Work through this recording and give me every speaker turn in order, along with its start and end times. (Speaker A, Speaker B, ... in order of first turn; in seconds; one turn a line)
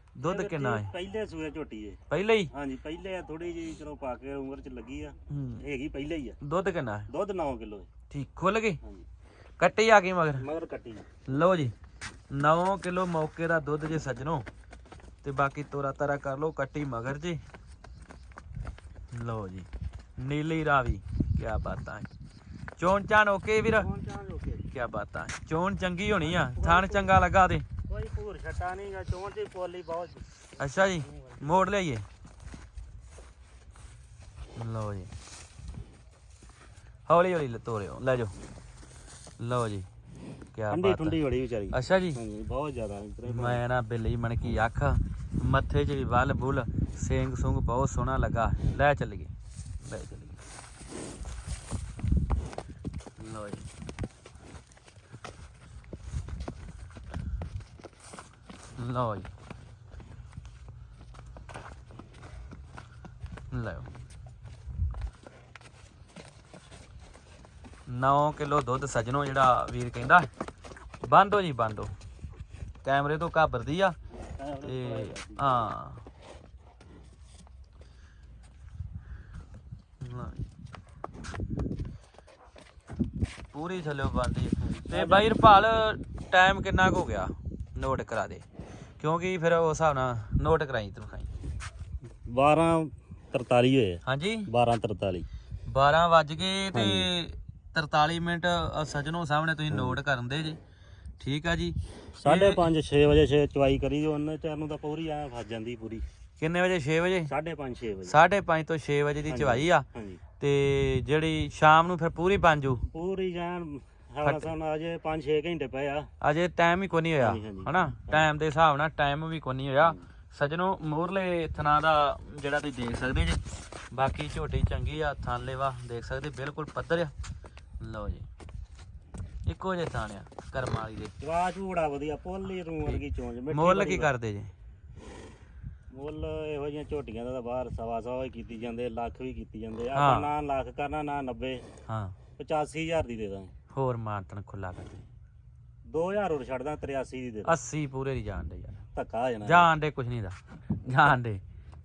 Speaker A: 0.1-0.9
Speaker B: 0.2-2.0
Speaker A: 2.1-2.5
Speaker B: 2.5-6.4
Speaker A: 5.3-5.6
Speaker A: 6.4-7.1
Speaker B: 7.1-7.9
Speaker A: 8.1-8.8
Speaker A: 9.6-10.4
Speaker B: 10.4-11.1
Speaker A: 11.3-11.7
Speaker A: 12.3-14.4
Speaker A: 15.2-17.4
Speaker A: 19.1-22.1
Speaker A: 22.8-23.9
Speaker B: 23.7-24.7
Speaker A: 24.7-27.6
Speaker B: 26.1-27.1
Speaker B: 27.9-30.2
Speaker A: 30.6-32.0
Speaker A: 34.5-35.1
Speaker A: 37.1-38.3
Speaker A: 39.4-39.9
Speaker A: 40.5-41.2
Speaker B: 40.7-43.6
Speaker A: 41.7-42.2
Speaker A: 43.2-50.4
Speaker A: 53.2-53.7
Speaker A: 58.8-59.3
Speaker A: 63.5-63.9
Speaker A: 67.9-70.3
Speaker A: 71.0-71.9
Speaker A: 72.8-74.0
Speaker B: 74.2-75.5
Speaker A: 74.6-76.0
Speaker A: 80.0-80.4
Speaker A: 83.5-88.5
Speaker B: 84.6-85.3
Speaker A: 89.0-91.3
Speaker B: 92.2-95.2
Speaker A: 94.0-94.5
Speaker A: 95.7-100.6
Speaker B: 96.7-97.1
Speaker B: 99.7-100.0
Speaker A: 101.2-102.6
Speaker B: 102.2-106.0
Speaker A: 106.4-107.3
Speaker B: 107.3-108.2
Speaker A: 108.0-109.8
Speaker B: 109.3-110.2
Speaker A: 110.4-112.8
Speaker B: 112.9-116.1
Speaker A: 114.2-114.5
Speaker A: 116.2-123.4
Speaker B: 117.2-118.3
Speaker A: 123.9-127.1
Speaker A: 127.8-128.3
Speaker A: 129.4-131.1
Speaker B: 131.2-134.1
Speaker A: 132.9-134.5
Speaker B: 135.9-141.7
Speaker A: 139.9-140.3
Speaker A: 141.9-142.1
Speaker B: 142.4-143.5
Speaker A: 143.7-145.1
Speaker B: 145.8-147.5
Speaker A: 147.4-148.8
Speaker B: 148.9-149.7
Speaker A: 149.4-151.4